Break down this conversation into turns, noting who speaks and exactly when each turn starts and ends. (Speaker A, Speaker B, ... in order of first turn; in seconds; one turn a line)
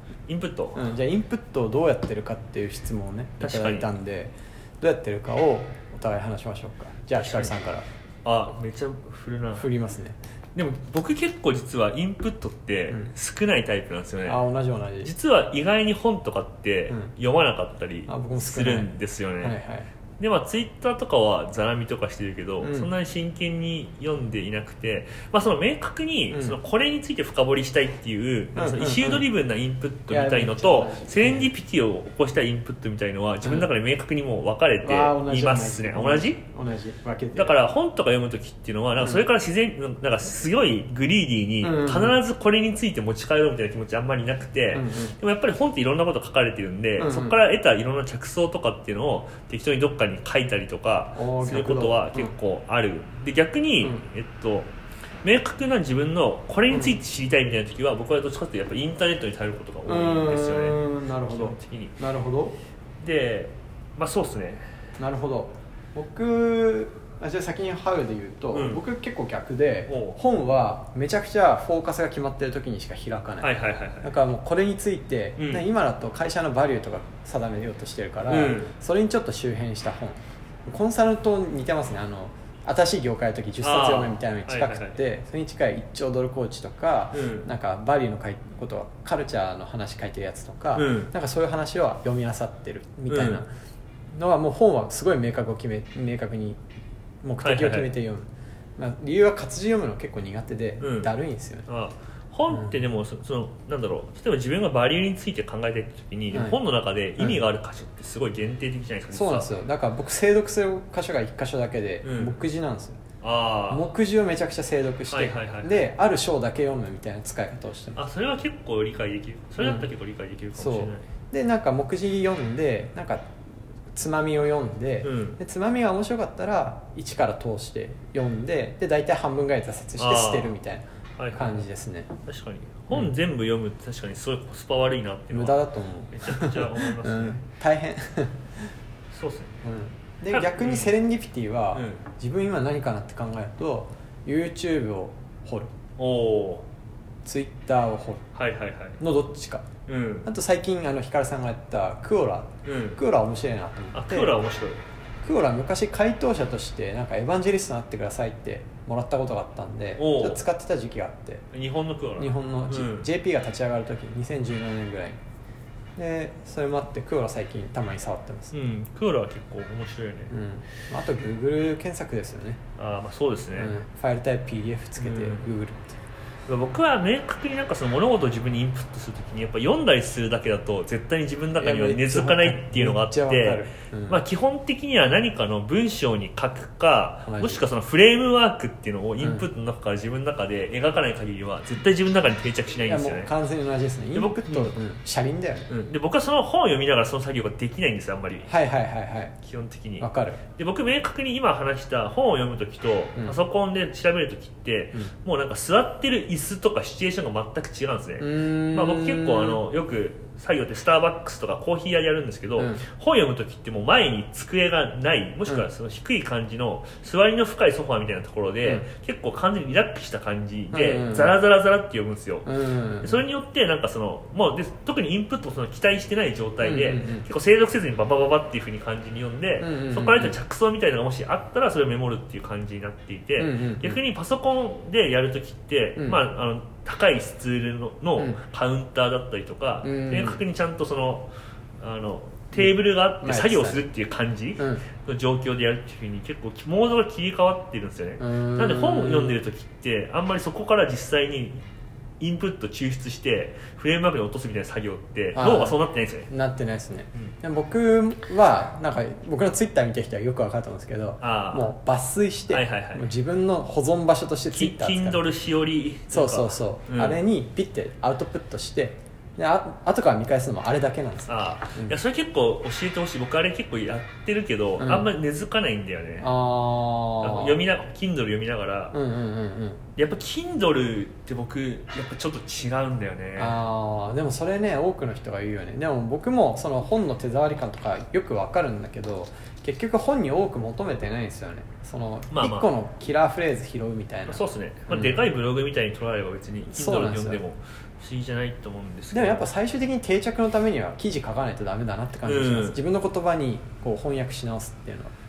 Speaker A: 0.3-0.8
Speaker B: 0.7-7.8
Speaker A: 3.4-3.9
Speaker A: 7.2-7.6
Speaker A: 8.2-9.7
Speaker B: 9.6-10.2
Speaker A: 10.5-14.4
Speaker B: 14.2-15.1
Speaker A: 15.0-19.5
Speaker B: 18.1-19.9
Speaker A: 20.2-36.4
Speaker B: 22.6-22.9
Speaker B: 26.3-26.6
Speaker B: 28.5-29.2
Speaker B: 30.1-31.5
Speaker B: 33.4-33.7
Speaker B: 34.8-37.6
Speaker A: 37.3-62.0
Speaker B: 39.0-39.2
Speaker B: 41.6-42.2
Speaker B: 44.7-45.1
Speaker B: 47.0-47.4
Speaker B: 51.1-52.3
Speaker B: 56.7-57.0
Speaker B: 59.8-62.6
Speaker A: 63.0-64.7
Speaker B: 65.0-73.5
Speaker A: 68.5-68.8
Speaker A: 69.9-70.2
Speaker A: 73.4-74.1
Speaker B: 74.0-93.5
Speaker A: 75.4-75.7
Speaker A: 78.3-78.7
Speaker A: 83.6-85.0
Speaker A: 87.1-87.5
Speaker A: 90.7-91.1
Speaker A: 93.1-93.4
Speaker B: 94.1-96.6
Speaker B: 97.2-101.7
Speaker A: 97.4-97.9
Speaker A: 100.8-101.1
Speaker A: 101.7-109.5
Speaker B: 106.3-106.6
Speaker B: 109.1-113.0
Speaker A: 112.0-112.4
Speaker A: 113.2-113.8
Speaker B: 113.7-118.0
Speaker A: 115.1-115.8
Speaker A: 118.0-121.0
Speaker B: 119.6-119.9
Speaker B: 120.5-123.3
Speaker B: 123.9-130.8
Speaker A: 125.0-125.4
Speaker A: 130.0-130.6
Speaker A: 131.2-131.6
Speaker B: 131.3-132.1
Speaker A: 132.2-137.5
Speaker B: 135.3-138.5
Speaker A: 139.1-139.5
Speaker B: 139.6-145.7
Speaker A: 140.3-140.9
Speaker A: 141.7-142.0
Speaker A: 146.0-146.7
Speaker B: 147.2-148.2
Speaker A: 148.3-149.0
Speaker B: 149.0-149.7
Speaker A: 149.8-150.3
Speaker B: 150.2-154.4
Speaker A: 152.6-153.0
Speaker A: 153.9-154.8
Speaker B: 155.2-161.4
Speaker A: 160.0-160.4
Speaker A: 161.5-163.1
Speaker B: 162.2-165.2
Speaker B: 166.0-168.5
Speaker A: 168.5-170.3
Speaker B: 170.3-172.6
Speaker A: 172.8-173.8
Speaker B: 173.5-176.0
Speaker A: 175.0-175.5
Speaker A: 176.5-193.3
Speaker B: 181.6-184.2
Speaker B: 187.2-187.6
Speaker B: 189.2-189.4
Speaker B: 192.8-195.7
Speaker A: 194.1-194.8
Speaker A: 195.7-198.5
Speaker B: 198.4-199.3
Speaker A: 199.4-251.6
Speaker B: 200.0-200.4
Speaker B: 208.2-209.6
Speaker B: 212.6-212.8
Speaker B: 220.7-221.3
Speaker B: 222.4-223.2
Speaker B: 226.6-227.3
Speaker B: 229.6-230.3
Speaker B: 233.4-234.0
Speaker B: 239.8-240.4
Speaker B: 242.5-243.8
Speaker B: 244.6-244.8
Speaker B: 248.2-249.4
Speaker A: 252.2-256.3
Speaker B: 255.3-265.2
Speaker A: 261.2-261.7
Speaker A: 262.5-263.1
Speaker A: 264.5-267.2
Speaker B: 266.1-271.9
Speaker A: 271.3-276.3
Speaker B: 274.8-275.1
Speaker B: 276.2-277.6
Speaker A: 277.2-279.0
Speaker B: 278.9-279.8
Speaker A: 279.9-283.6
Speaker B: 283.4-295.2
Speaker A: 292.3-292.7
Speaker A: 294.3-299.5
Speaker B: 296.7-297.4
Speaker B: 299.1-305.1
Speaker A: 302.2-302.8